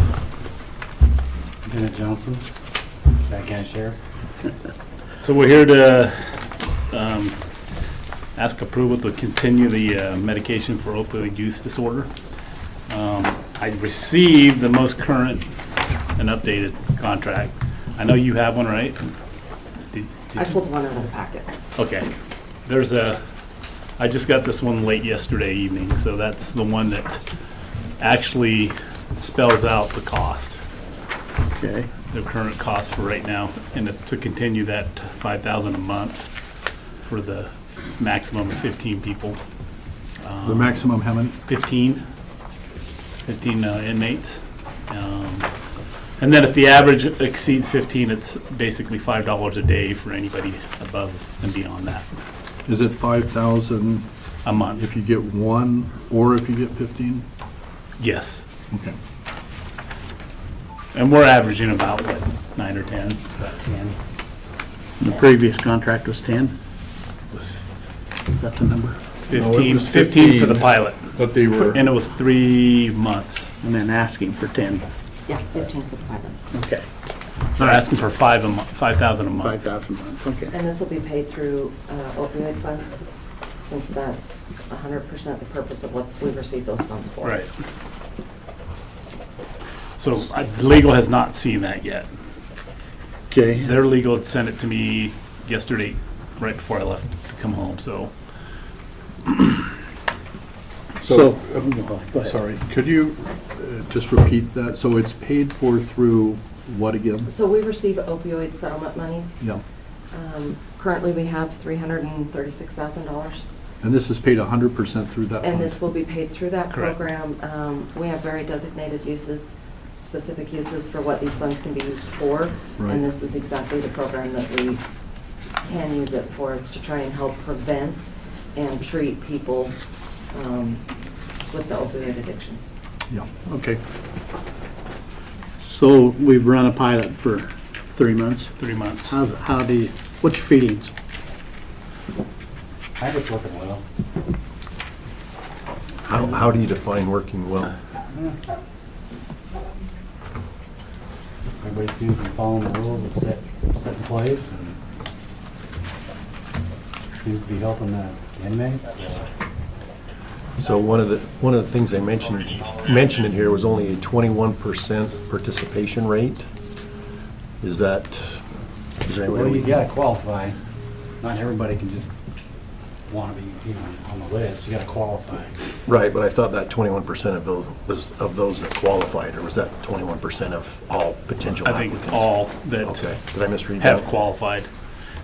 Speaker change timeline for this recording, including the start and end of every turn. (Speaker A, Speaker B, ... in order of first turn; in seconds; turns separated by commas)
Speaker A: 1.6-2.4, Speaker A: 3.3-4.0, Speaker B: 5.2-7.3, Speaker B: 8.3-12.1, Speaker B: 12.9-15.4, Speaker B: 16.1-19.0, Speaker B: 19.9-20.6, Speaker C: 20.4-21.6, Speaker B: 21.8-22.1, Speaker B: 22.6-23.2, Speaker B: 24.0-27.2, Speaker B: 28.0-30.6, Speaker D: 31.6-31.9, Speaker B: 32.1-36.3, Speaker B: 37.0-39.4, Speaker B: 40.2-40.8, Speaker E: 40.4-41.4, Speaker B: 41.5-42.0, Speaker B: 43.2-45.5, Speaker B: 46.2-52.0, Speaker E: 52.6-57.2, Speaker B: 54.4-54.9, Speaker B: 58.0-58.5, Speaker E: 58.7-59.0, Speaker B: 60.9-63.5, Speaker A: 63.6-64.0, Speaker D: 65.0-66.5, Speaker B: 67.3-67.6, Speaker D: 68.3-69.0, Speaker B: 69.2-73.5, Speaker E: 69.3-71.9, Speaker D: 73.6-74.9, Speaker C: 75.2-76.4, Speaker D: 76.5-76.8, Speaker D: 77.5-77.8, Speaker B: 77.6-79.6, Speaker D: 79.4-80.5, Speaker C: 80.5-83.0, Speaker C: 83.6-87.4, Speaker B: 87.2-87.5, Speaker B: 90.0-92.1, Speaker D: 93.3-93.7, Speaker B: 93.6-98.1, Speaker E: 101.0-107.3, Speaker D: 101.0-102.4, Speaker C: 107.3-109.4, Speaker C: 110.1-113.5, Speaker E: 113.8-115.8, Speaker C: 115.4-124.8, Speaker B: 116.7-117.0, Speaker E: 122.8-123.1, Speaker C: 125.6-129.8, Speaker C: 130.3-130.9, Speaker C: 131.5-132.7, Speaker E: 133.1-133.8, Speaker D: 135.6-140.9, Speaker B: 138.6-139.2, Speaker A: 143.0-143.8, Speaker F: 146.0-147.7, Speaker A: 151.6-154.8, Speaker A: 157.1-159.3, Speaker F: 160.6-166.5, Speaker F: 167.6-168.4, Speaker F: 169.0-169.7, Speaker A: 169.2-170.6, Speaker A: 171.2-172.1, Speaker A: 173.1-175.6, Speaker F: 175.8-184.1, Speaker B: 181.6-183.1, Speaker B: 183.8-184.7